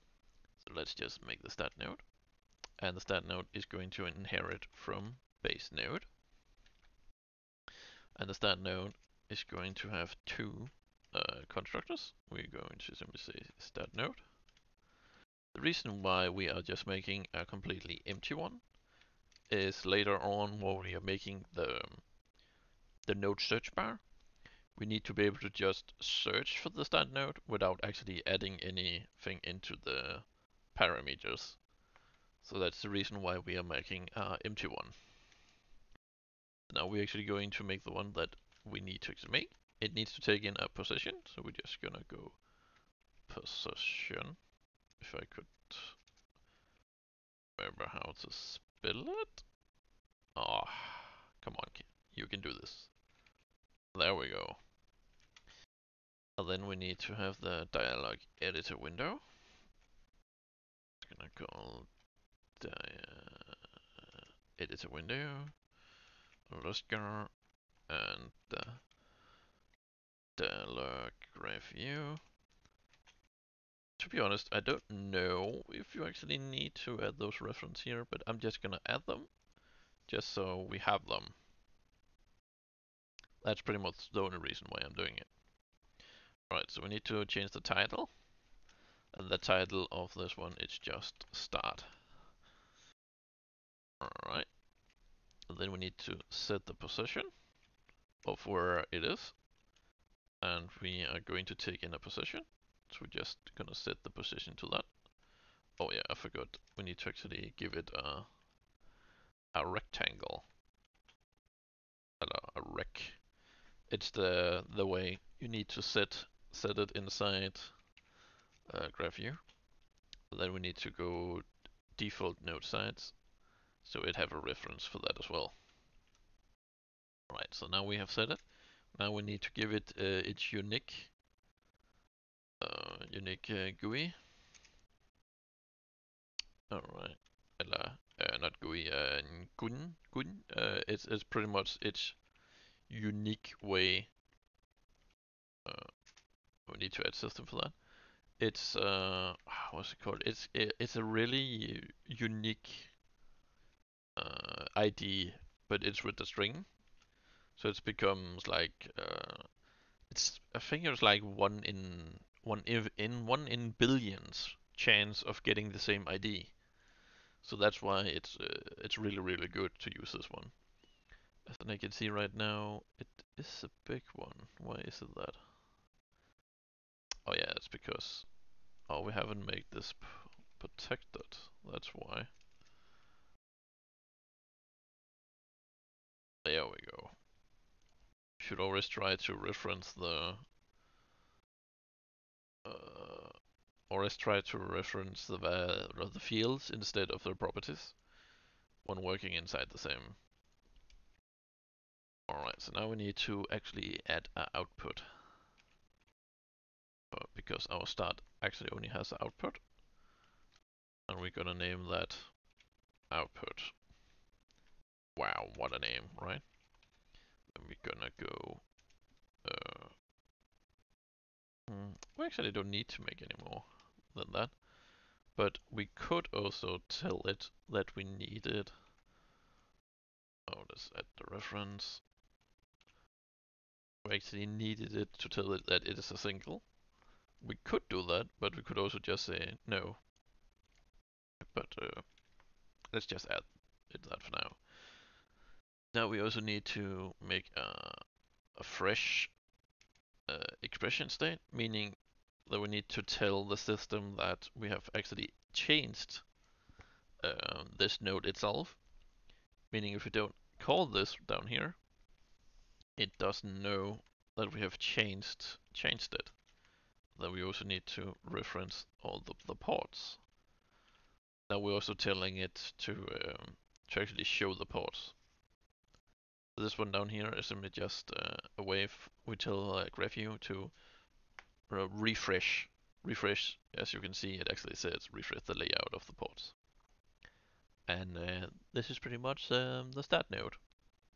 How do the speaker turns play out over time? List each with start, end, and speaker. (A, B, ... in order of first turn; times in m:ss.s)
0:00.6-0:02.1 A
0:02.8-0:06.1 A
0:08.1-0:14.3 A
0:15.5-0:18.7 A
0:19.5-0:22.1 A
0:23.0-0:24.1 A
0:24.7-0:31.7 A
0:32.4-0:35.0 A
0:36.7-0:42.4 A
0:43.2-0:46.0 A
0:47.6-0:49.5 A
0:50.3-0:53.0 A
0:53.9-0:54.6 A
0:56.4-0:59.3 A
1:01.0-1:02.0 A
1:02.5-1:03.7 A
1:04.5-1:05.7 A
1:06.5-1:08.9 A
1:10.4-1:12.2 A
1:14.0-1:19.4 A
1:20.0-1:21.4 A
1:23.4-1:25.4 A
1:26.4-1:28.3 A
1:29.1-1:32.1 A
1:34.0-1:34.6 A
1:35.5-1:37.4 A
1:38.2-1:39.4 A
1:40.4-1:45.0 A
1:45.7-1:48.4 A
1:49.5-1:50.5 A
1:52.2-1:53.3 A
1:53.9-1:57.9 A
1:58.7-1:59.5 A
2:00.3-2:03.2 A
2:03.8-2:05.6 A
2:07.3-2:11.1 A
2:12.6-2:14.2 A
2:16.7-2:22.3 A
2:22.8-2:24.1 A
2:25.6-2:26.0 A
2:26.6-2:33.0 A
2:34.2-2:36.8 A
2:37.5-2:46.6 A
2:47.4-2:50.6 A
2:51.4-2:55.5 A
2:57.2-3:02.4 A
3:06.4-3:07.2 A
3:08.4-3:10.5 A
3:12.6-3:18.0 A
3:18.8-3:20.2 A
3:22.3-3:25.3 A
3:27.1-3:29.7 A
3:31.1-3:32.4 A
3:33.1-3:33.8 A
3:35.2-3:36.6 A
3:37.5-3:38.7 A
3:39.4-3:40.0 A
3:41.7-3:44.7 A
3:45.2-3:48.7 A
3:50.5-3:52.0 A
3:54.0-3:56.7 A
3:57.4-4:00.0 A
4:01.4-4:02.2 A
4:02.9-4:05.2 A
4:05.9-4:09.4 A
4:10.2-4:16.3 A
4:17.2-4:18.8 A
4:19.7-4:21.8 A
4:23.0-4:26.4 A
4:27.1-4:30.2 A
4:31.5-4:35.2 A
4:36.5-4:40.8 A
4:41.7-4:46.6 A
4:47.8-4:50.7 A